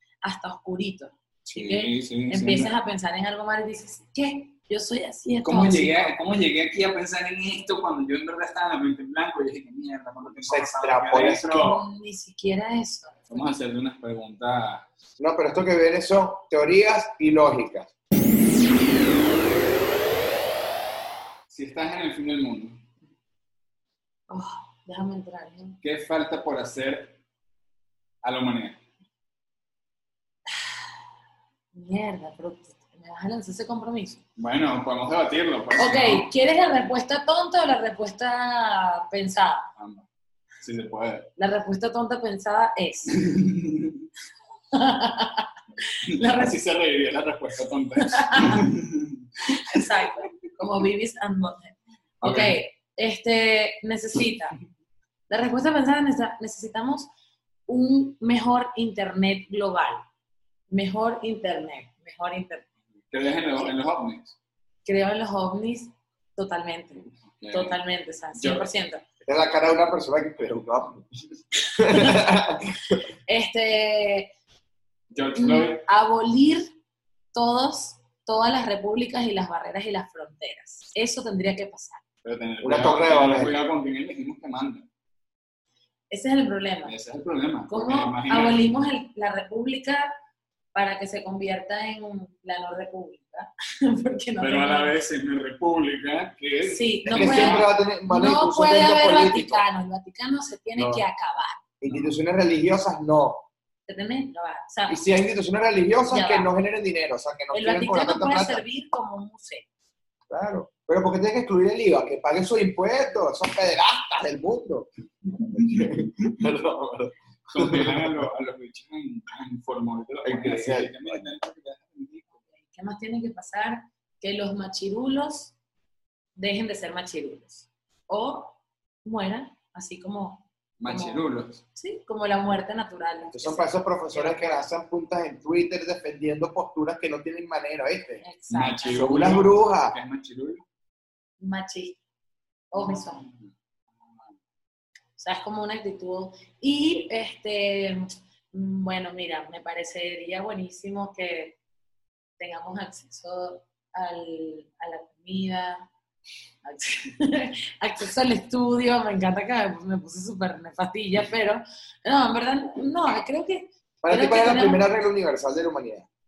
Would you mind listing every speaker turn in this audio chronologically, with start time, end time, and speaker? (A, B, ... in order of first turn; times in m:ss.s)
0:00.2-0:06.2 A
0:01.5-0:02.7 B
0:05.4-0:11.8 B
0:10.3-0:11.6 C
0:11.5-0:13.5 A
0:13.3-0:14.8 B
0:15.2-0:17.9 C
0:21.5-0:22.8 B
0:24.3-0:25.8 A
0:25.8-0:27.2 B
0:28.2-0:28.8 B
0:31.7-0:34.2 A
0:34.4-0:36.3 B
0:35.8-0:39.7 A
0:39.8-0:40.0 B
0:40.6-0:41.3 B
0:41.4-0:43.2 A
0:43.1-0:44.0 B
0:44.7-0:46.6 A
0:46.1-0:49.9 B
0:48.0-0:48.6 A
0:49.5-0:54.6 A
0:52.2-0:52.6 B
0:55.3-0:57.1 A
0:57.7-1:00.0 A
1:00.7-1:02.6 A
1:03.1-1:04.3 B
1:04.8-1:09.0 A
1:07.4-1:07.8 B
1:08.3-1:08.7 B
1:09.2-1:11.1 C
1:11.8-1:13.0 C
1:11.8-1:12.2 A
1:13.2-1:14.3 A
1:15.1-1:15.8 B
1:15.3-1:16.8 A
1:17.3-1:22.0 A
1:22.2-1:24.8 B
1:22.6-1:23.6 C
1:26.1-1:26.9 A
1:26.8-1:28.7 B
1:27.7-1:30.1 A
1:30.7-1:34.9 A
1:34.4-1:37.7 B
1:36.6-1:41.6 A
1:37.1-1:39.6 C
1:40.8-1:41.0 B
1:41.8-1:43.5 C
1:43.9-1:45.0 A
1:44.9-1:48.6 C
1:46.1-1:46.5 A
1:47.5-1:49.6 A
1:50.3-1:58.2 C
1:55.6-1:55.9 B
1:57.5-2:02.4 B
2:00.2-2:01.2 C
2:02.5-2:05.5 A
2:06.4-2:14.7 A
2:10.8-2:11.6 B
2:13.3-2:18.2 C
2:18.2-2:19.1 A
2:18.5-2:20.6 B
2:18.9-2:20.0 C
2:21.4-2:22.0 A
2:22.7-2:23.3 A
2:22.7-2:23.5 B
2:25.2-2:31.6 A
2:32.4-2:35.9 A
2:36.6-2:44.9 A
2:44.0-2:46.1 C